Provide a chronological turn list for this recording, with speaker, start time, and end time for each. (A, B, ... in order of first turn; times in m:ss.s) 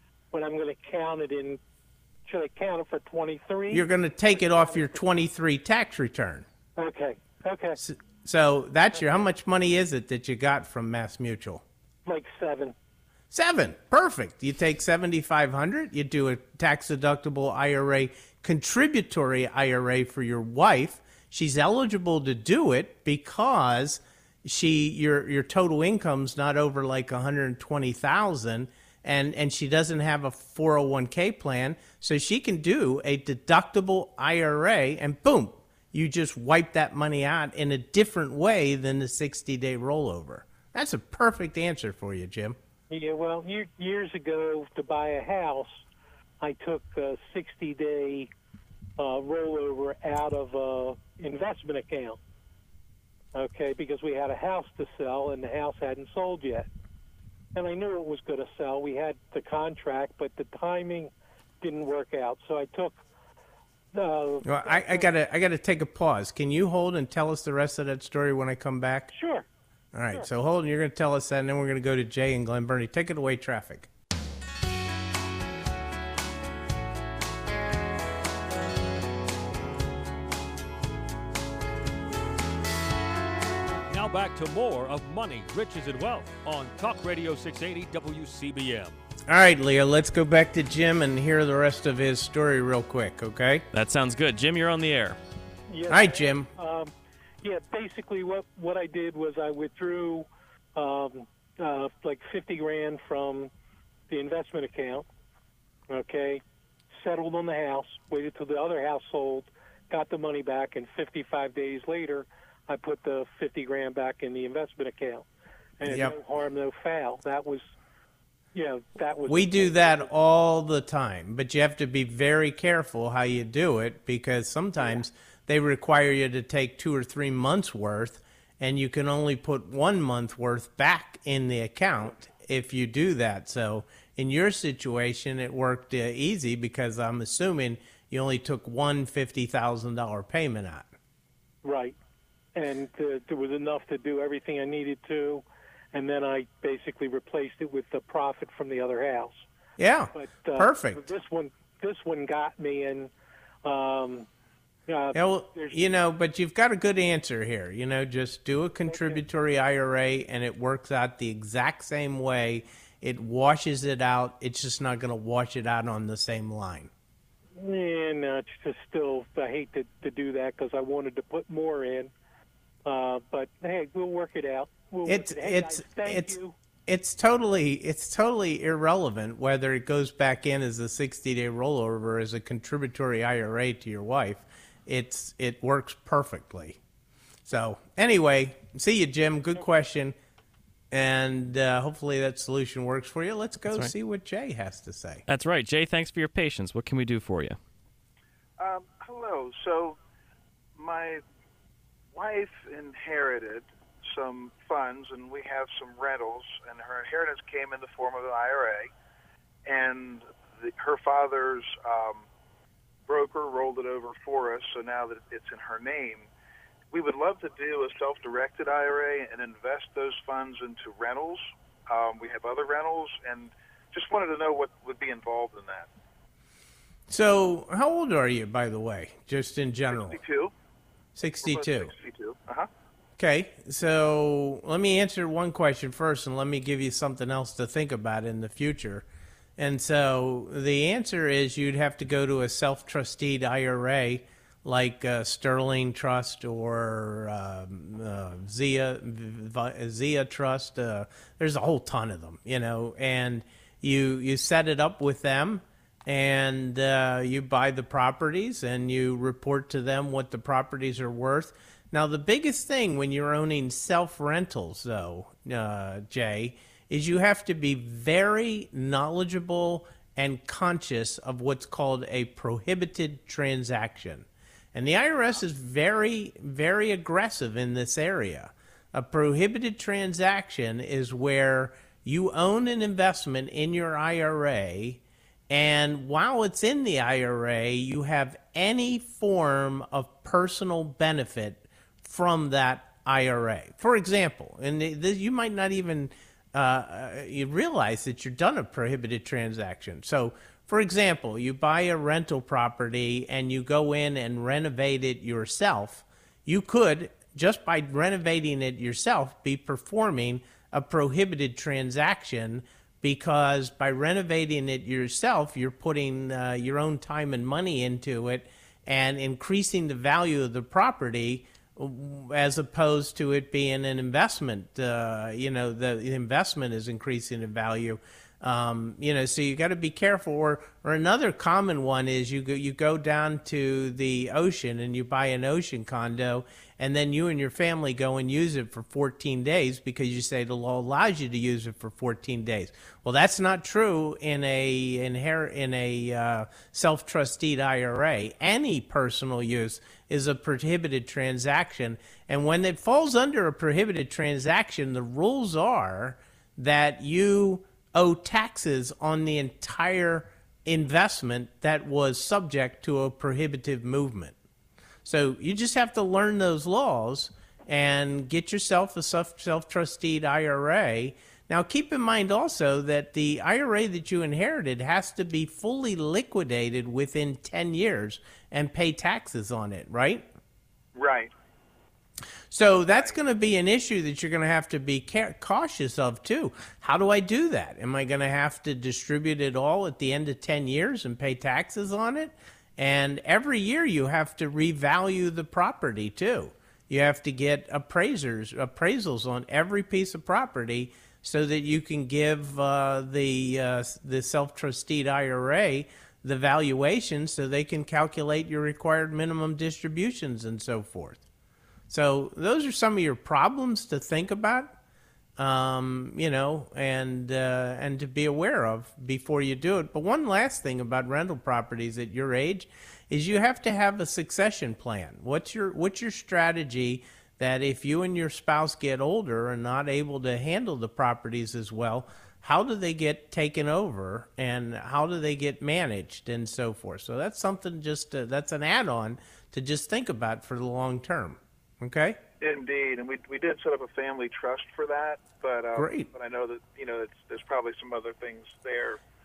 0:00.3-0:01.6 A
0:02.3-0:03.9 A
0:03.7-0:06.4 B
0:04.4-0:05.0 A
0:06.8-0:07.8 A
0:07.8-0:11.6 B
0:09.0-0:09.2 A
0:12.1-0:12.8 A
0:13.3-0:42.6 B
0:42.9-0:45.8 A
0:46.4-0:48.3 A
0:49.0-0:52.2 A
0:53.4-0:56.7 A
0:57.6-1:03.0 A
1:03.9-1:05.1 A
1:04.4-1:09.1 B
1:09.1-1:09.5 A
1:09.9-1:13.9 B
1:23.9-1:29.0 C
1:29.3-1:33.6 B
1:33.7-1:35.2 D
1:35.7-1:43.5 A
1:35.9-1:36.5 B
1:44.1-1:45.0 A
1:45.9-1:46.4 A
1:47.0-1:55.2 A
1:55.8-1:57.7 A
1:55.9-1:56.2 B
1:58.5-2:00.1 A
1:59.3-2:20.9 B
2:21.6-2:22.0 A
2:22.6-2:29.4 A
2:29.8-2:31.1 B
2:30.1-2:33.1 A
2:33.6-2:34.3 A
2:34.9-2:35.8 A
2:35.2-2:46.9 B
2:38.9-2:39.2 A
2:47.6-2:52.1 A
2:52.9-2:56.6 A
2:55.1-2:56.3 B
2:56.9-3:06.8 B
3:07.5-3:10.2 B
3:10.9-3:15.2 B
3:15.3-3:17.6 D
3:18.6-3:20.0 E
3:20.8-3:21.2 E
3:22.1-3:28.9 E
3:29.6-3:32.3 E
3:33.1-3:36.3 E
3:36.9-3:45.9 E
3:47.1-3:50.2 B
3:49.9-3:50.5 E
3:51.2-3:51.9 B
3:51.4-3:52.7 E
3:53.2-3:59.1 B
3:59.6-6:04.4 B
6:05.0-6:20.3 B
6:21.0-6:21.3 E
6:22.5-6:51.2 B
6:22.9-6:23.2 E
6:51.9-6:54.8 B
6:55.4-7:22.2 B
7:22.4-7:29.0 E
7:25.8-7:26.1 B